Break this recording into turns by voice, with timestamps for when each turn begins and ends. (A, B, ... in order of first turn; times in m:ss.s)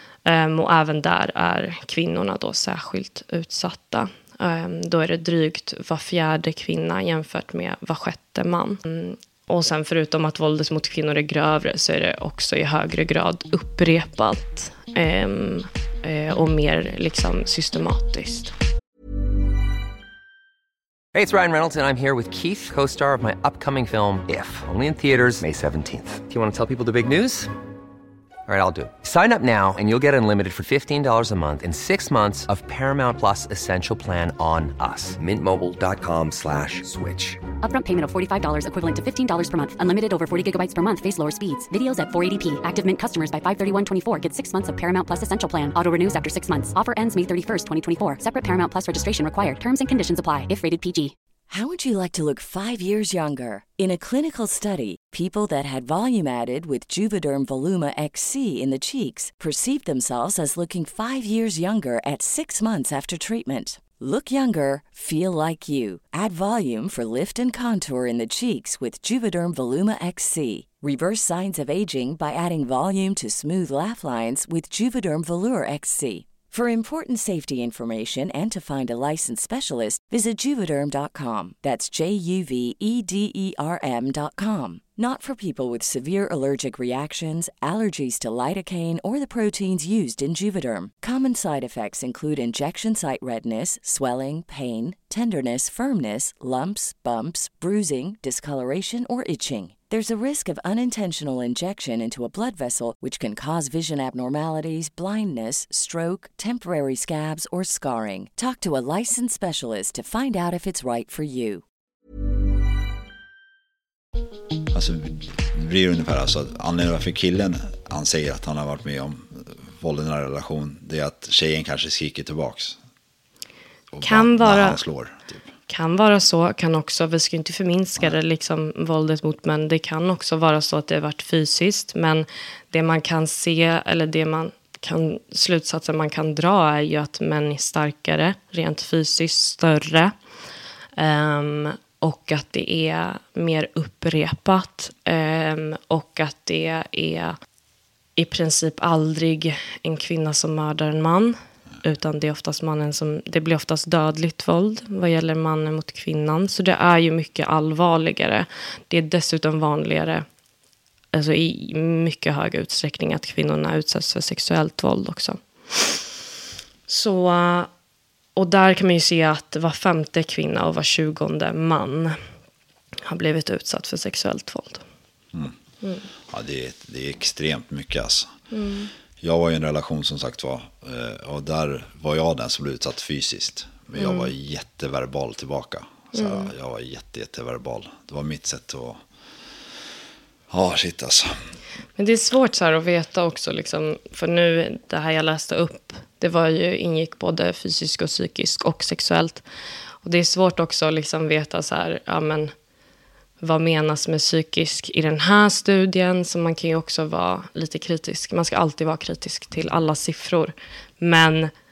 0:00.2-0:18.5 A
0:21.1-0:27.5 B
0:28.5-0:37.4 B
0:37.6-0:51.1 C
0:51.5-1:51.6 D
1:54.7-2:02.8 E
2:03.9-2:05.5 E
2:04.0-2:04.8 A
2:05.7-2:20.1 A
2:21.0-2:27.4 A
2:28.2-2:40.2 A
2:41.1-2:46.0 A
2:46.9-2:47.7 A
2:48.4-2:52.2 A
2:53.0-2:54.8 A
2:56.3-2:58.4 E
2:58.5-2:58.9 A
2:59.2-3:09.0 E
3:04.0-3:04.3 A
3:06.1-3:06.5 A
3:10.5-3:11.3 E
3:12.0-3:19.4 A
3:20.0-3:22.5 A
3:23.4-3:31.5 A